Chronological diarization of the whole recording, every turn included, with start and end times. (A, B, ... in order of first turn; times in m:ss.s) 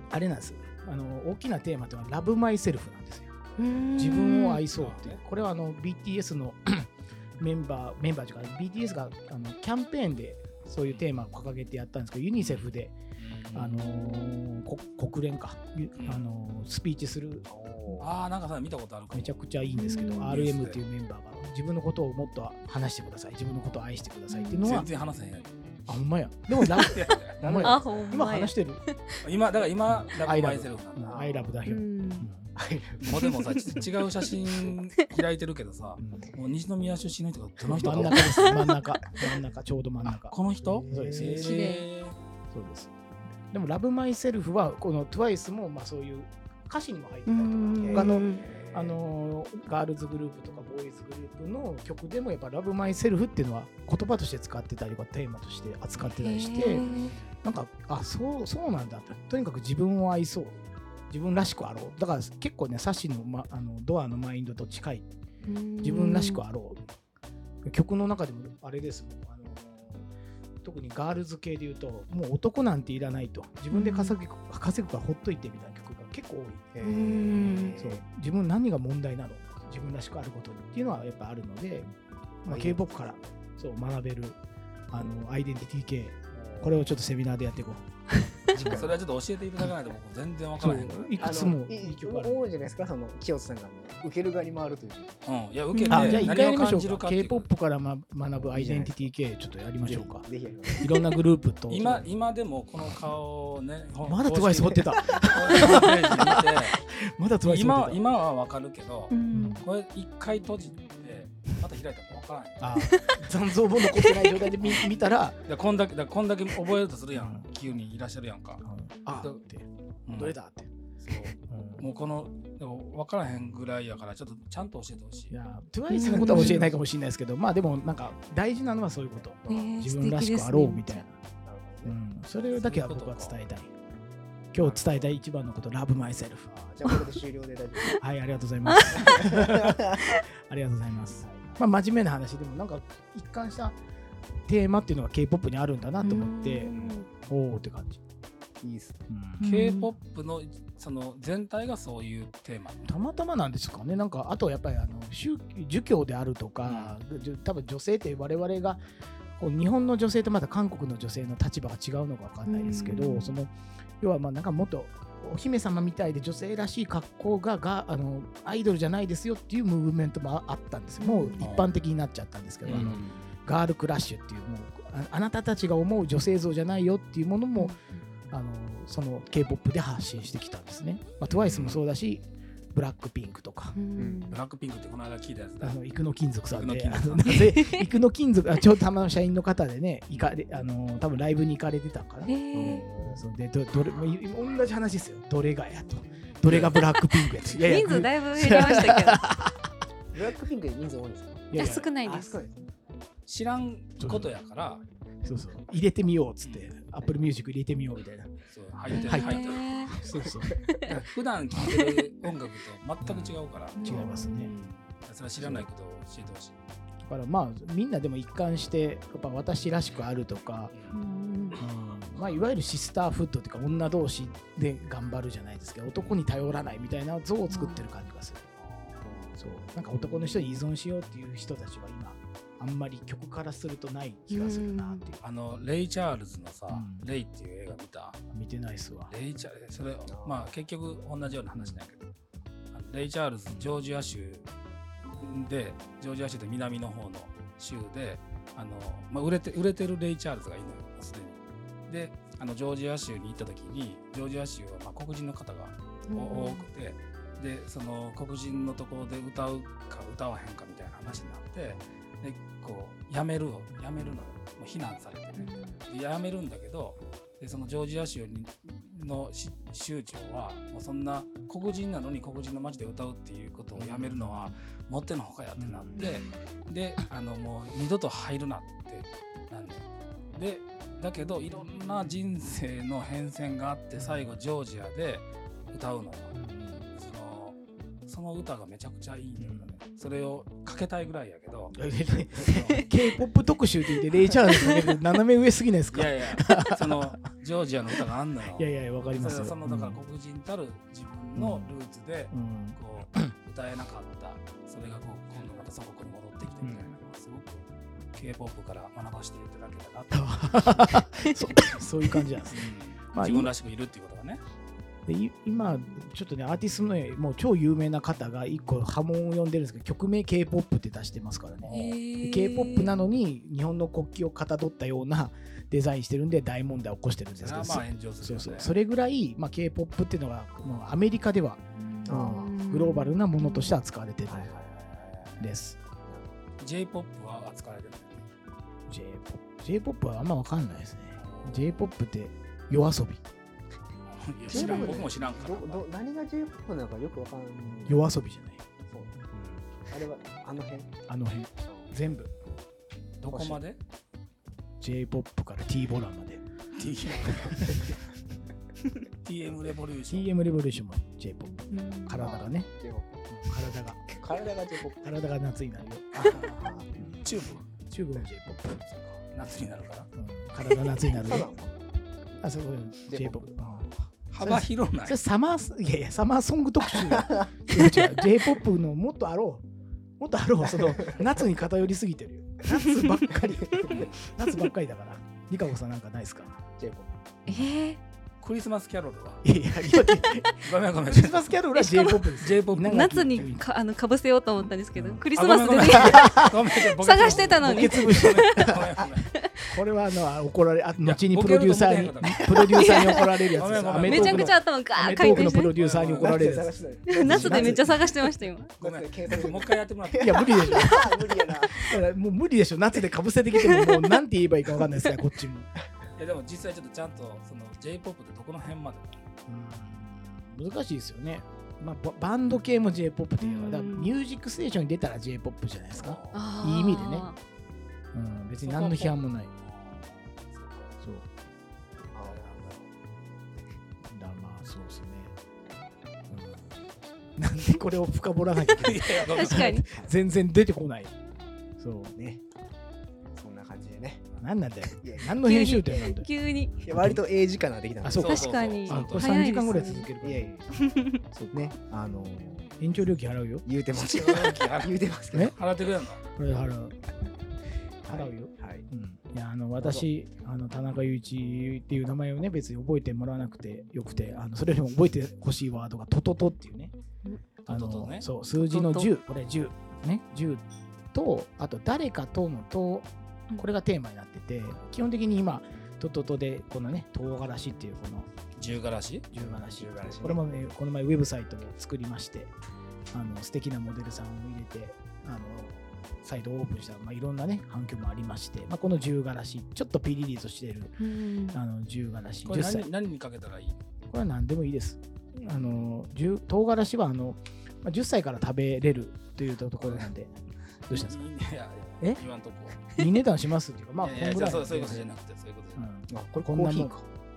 0:00.1-0:03.3 A
0:03.6-0:04.6 B
0:04.0-0:13.0 A
0:04.8-0:05.2 C
0:13.2-0:14.0 C
0:13.5-0:17.5 A
0:16.0-0:16.2 C
0:17.5-0:18.1 D
0:18.0-0:19.3 C
0:19.1-0:24.9 A
0:19.7-0:20.4 B
0:20.3-0:20.8 C
0:24.3-0:24.8 B
0:24.6-0:25.5 C
0:25.9-0:28.8 A
0:26.6-0:27.4 C
0:27.4-0:28.1 D
0:27.6-0:29.2 B
0:29.2-0:31.2 C
0:29.9-0:32.5 A
0:31.0-0:31.6 D
0:31.6-0:32.3 B
0:32.6-0:33.2 D
0:33.0-0:38.3 C
0:33.0-0:33.8 B
0:36.0-0:36.3 A
0:37.7-0:41.5 A
0:37.7-0:38.2 D
0:38.2-0:38.9 B
0:40.0-0:42.2 C
0:40.6-0:41.4 D
0:41.4-0:41.8 B
0:42.5-0:42.9 A
0:43.5-1:05.1 A
0:47.2-0:48.4 B
0:47.8-0:49.0 D
0:56.0-0:57.4 C
0:56.2-0:57.1 B
1:05.4-1:06.4 B
1:05.8-1:06.8 A
1:07.6-1:10.1 A
1:10.6-1:16.7 A
1:13.7-1:14.1 B
1:16.7-1:18.0 D
1:16.8-1:17.8 B
1:17.8-1:21.9 A
1:22.4-1:24.4 A
1:22.4-1:23.3 D
1:24.9-1:27.8 A
1:26.3-1:26.9 D
1:28.5-1:29.0 D
1:28.6-1:31.4 C
1:30.6-1:32.4 A
1:31.2-1:35.2 D
1:35.2-1:37.5 C
1:35.7-1:36.4 B
1:35.9-1:40.3 A
1:38.3-1:39.0 D
1:39.8-1:40.9 D
1:40.8-1:42.0 A
1:41.7-1:46.8 C
1:41.8-1:42.1 D
1:44.0-1:48.0 A
1:47.4-1:53.0 C
1:49.1-1:49.6 B
1:49.3-1:49.6 A
1:52.6-1:55.4 A
1:52.8-1:53.2 B
1:53.8-1:54.3 B
1:54.6-1:54.9 C
1:55.5-1:58.6 C
1:57.1-1:57.5 A
1:58.6-2:00.7 A
2:00.1-2:00.4 C
2:01.0-2:05.3 C
2:01.4-2:01.9 A
2:05.3-2:11.2 A
2:05.9-2:06.7 B
2:06.2-2:06.7 C
2:09.4-2:09.8 D
2:09.5-2:11.0 B
2:11.4-2:12.0 D
2:11.8-2:13.7 A
2:12.5-2:13.4 C
2:14.5-2:15.1 D
2:14.5-2:16.5 A
2:16.5-2:18.0 D
2:18.0-2:23.8 A
2:18.6-2:19.0 B
2:18.9-2:20.0 D
2:21.2-2:21.5 D
2:24.5-2:28.0 A
2:26.0-2:27.1 B
2:28.6-2:29.0 D
2:29.1-2:29.4 A
2:29.4-2:29.9 B
2:29.4-2:32.9 C
2:32.8-2:38.8 A
2:36.6-2:37.0 C
2:39.4-2:57.7 A
2:42.4-2:43.3 B
2:51.0-2:51.4 B
2:51.4-2:51.7 C
2:52.6-2:53.3 C
2:57.5-2:58.0 B
2:58.3-3:03.8 A
3:01.2-3:01.8 C
3:03.7-3:04.4 B
3:04.0-3:04.2 D
3:04.3-3:05.8 C
3:05.6-3:19.7 A
3:06.5-3:07.4 C
3:07.5-3:07.8 B
3:12.3-3:12.8 B
3:12.5-3:13.2 D
3:16.4-3:16.9 C
3:17.5-3:19.2 B
3:20.1-3:22.7 D
3:21.5-3:21.9 A
3:21.5-3:22.3 B
3:23.3-3:24.8 C
3:24.0-3:24.3 A
3:25.2-3:28.3 A
3:26.4-3:26.7 C
3:27.0-3:27.3 D
3:28.5-3:30.0 C
3:28.9-3:29.9 B
3:28.9-3:30.6 A
3:30.2-3:31.1 D
3:30.9-3:36.6 C
3:31.5-3:31.9 A
3:33.0-3:34.5 A
3:33.8-3:34.7 B
3:35.4-3:35.6 A
3:37.0-3:40.7 A
3:40.9-3:41.6 B
3:41.6-3:48.4 A
3:47.5-3:47.8 B
3:48.6-3:49.3 C
3:49.4-3:55.2 A
3:54.3-3:55.0 B
3:55.2-3:58.2 C
3:56.7-3:57.0 A
3:58.3-3:59.1 A
3:59.1-4:02.0 C
4:00.1-4:00.5 D
4:01.5-4:01.8 A
4:02.7-4:04.4 C
4:05.0-4:46.4 C
4:16.1-4:16.7 B
4:25.4-4:25.8 B
4:33.7-4:34.6 A
4:35.6-4:36.1 A
4:36.0-4:36.3 B
4:44.0-4:44.2 A
4:46.3-4:46.9 A
4:46.9-4:51.7 C
4:49.4-4:49.8 A
4:51.7-4:57.1 A
4:52.4-4:52.8 C
4:55.9-5:11.0 C
4:57.9-5:00.0 A
5:01.3-5:01.7 A
5:02.3-5:03.3 A
5:06.6-5:06.9 A
5:10.1-5:13.5 A
5:12.5-5:14.4 C
5:15.0-5:34.5 A
5:21.6-5:21.9 C
5:21.7-5:23.0 B
5:27.4-5:28.7 C
5:32.0-5:33.8 B
5:32.0-5:32.5 D
5:34.3-5:34.7 D
5:34.7-5:35.4 C
5:35.4-5:35.8 A
5:36.0-5:36.4 D
5:36.6-5:38.2 C
5:38.9-5:43.2 A
5:41.2-5:41.7 C
5:44.1-5:45.8 C
5:44.5-5:48.0 D
5:44.5-5:45.0 B
5:44.6-5:45.1 A
5:47.8-5:48.6 A
5:48.8-5:49.2 D
5:49.3-5:49.6 A
5:49.9-5:50.9 D
5:51.1-5:52.3 A
5:51.7-5:51.9 D
5:53.2-5:53.8 C
5:53.3-5:53.6 D
5:54.8-5:56.4 A
5:56.7-5:57.9 C
5:57.3-5:57.9 A
5:59.2-6:00.3 C
6:00.1-6:02.7 A
6:01.7-6:02.2 B
6:02.2-6:03.2 D
6:03.3-6:04.1 A
6:04.1-6:05.1 D
6:05.0-6:06.4 A
6:06.2-6:07.6 C
6:06.5-6:07.1 D
6:07.9-6:08.9 A
6:08.9-6:10.1 C
6:10.1-6:11.5 A
6:11.1-6:11.8 D
6:12.4-6:19.6 A
6:13.1-6:13.8 D
6:14.3-6:15.2 C
6:17.0-6:17.5 D
6:20.2-6:26.6 A
6:20.6-6:21.2 D
6:23.3-6:24.1 D
6:26.8-6:27.1 D
6:27.5-6:28.0 B
6:28.4-6:29.4 C
6:29.4-6:33.6 A
6:30.6-6:31.6 C
6:31.7-6:38.8 B
6:32.4-6:33.0 C
6:34.9-6:35.2 A
6:35.3-6:39.3 C
6:35.8-6:36.6 A
6:37.2-6:38.9 A
6:39.7-6:48.0 A
6:41.0-6:44.5 C
6:42.7-6:45.7 B
6:45.4-6:46.8 C
6:46.1-6:48.0 D
6:47.1-6:48.7 B
6:48.8-6:50.9 C
6:48.8-6:51.9 D
6:50.2-6:55.7 A
6:56.2-6:59.2 C
6:59.5-7:07.3 A
7:03.4-7:04.2 B
7:05.9-7:06.5 D
7:06.3-7:07.4 B
7:08.1-7:09.5 A
7:08.6-7:10.9 C
7:12.1-7:12.9 D
7:14.1-7:15.3 A
7:16.3-7:16.8 A
7:17.4-7:21.1 A
7:18.8-7:19.7 C
7:19.3-7:19.8 B
7:21.8-7:22.1 A
7:22.2-7:22.4 D
7:23.4-7:24.2 D
7:24.4-7:26.3 A
7:25.0-7:25.3 D
7:25.4-7:26.7 B
7:26.8-7:28.5 D
7:26.9-7:27.2 A
7:28.0-7:30.5 A
7:28.2-7:29.3 C
7:28.2-7:30.1 B
7:30.2-7:30.6 D
7:30.7-7:31.2 B
7:31.3-7:31.7 A
7:31.5-7:32.7 D
7:32.8-7:33.6 A
7:33.6-7:35.5 D
7:33.9-7:36.2 C
7:36.4-7:37.0 A
7:38.0-7:46.9 A
7:38.1-7:38.8 D
7:39.8-7:40.0 D
7:47.6-7:48.2 C
7:47.7-7:50.6 A
7:48.6-7:49.1 B
7:51.1-7:58.3 A
7:58.6-7:59.2 C
7:59.3-8:02.5 A
7:59.3-8:00.4 D
8:03.1-8:12.9 A
8:11.0-8:11.6 B
8:12.4-8:13.8 C
8:14.1-8:20.3 A
8:19.8-8:20.1 C
8:20.9-8:21.2 A
8:20.9-8:22.9 C
8:22.9-8:25.1 A
8:24.0-8:25.8 C
8:25.8-8:26.9 A
8:26.1-8:27.0 D